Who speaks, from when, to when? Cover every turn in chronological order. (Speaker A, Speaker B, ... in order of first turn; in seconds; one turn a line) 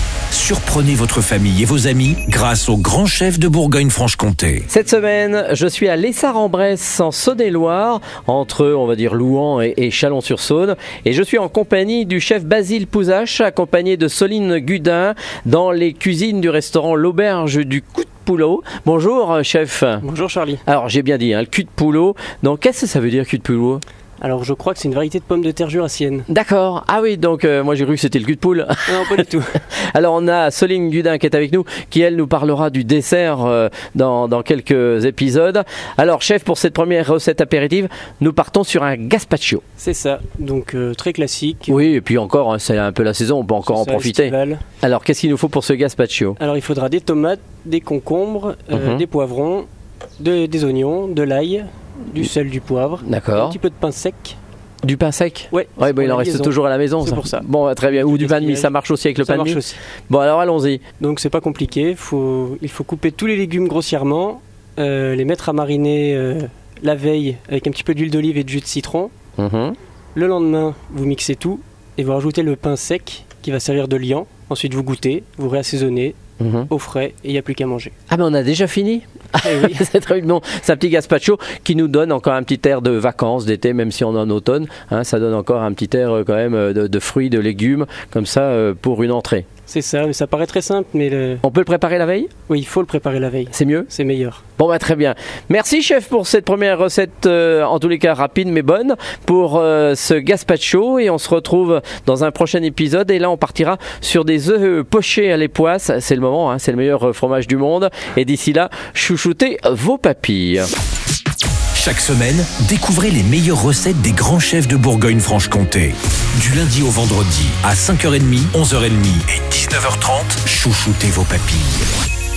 Speaker A: 0.3-4.7
Speaker B: 4.7-20.0
Speaker C: 20.0-20.6
Speaker B: 20.7-23.8
Speaker C: 24.2-26.3
Speaker B: 26.3-29.3
Speaker C: 28.9-29.6
Speaker B: 29.9-39.6
Speaker C: 39.8-41.8
Speaker B: 41.7-46.4
Speaker C: 43.7-44.6
Speaker C: 46.4-49.7
Speaker B: 48.7-49.0
Speaker C: 50.2-54.4
Speaker B: 53.0-53.6
Speaker B: 54.8-60.8
Speaker C: 55.5-59.8
Speaker C: 61.0-69.1
Speaker B: 69.4-69.8
Speaker C: 70.1-76.2
Speaker B: 76.4-76.7
Speaker C: 76.7-77.9
Speaker B: 78.1-89.5
Speaker C: 79.4-79.8
Speaker C: 89.7-91.4
Speaker B: 91.4-92.3
Speaker C: 92.5-94.4
Speaker B: 93.5-93.9
Speaker B: 94.6-110.7
Speaker A: 111.8-121.9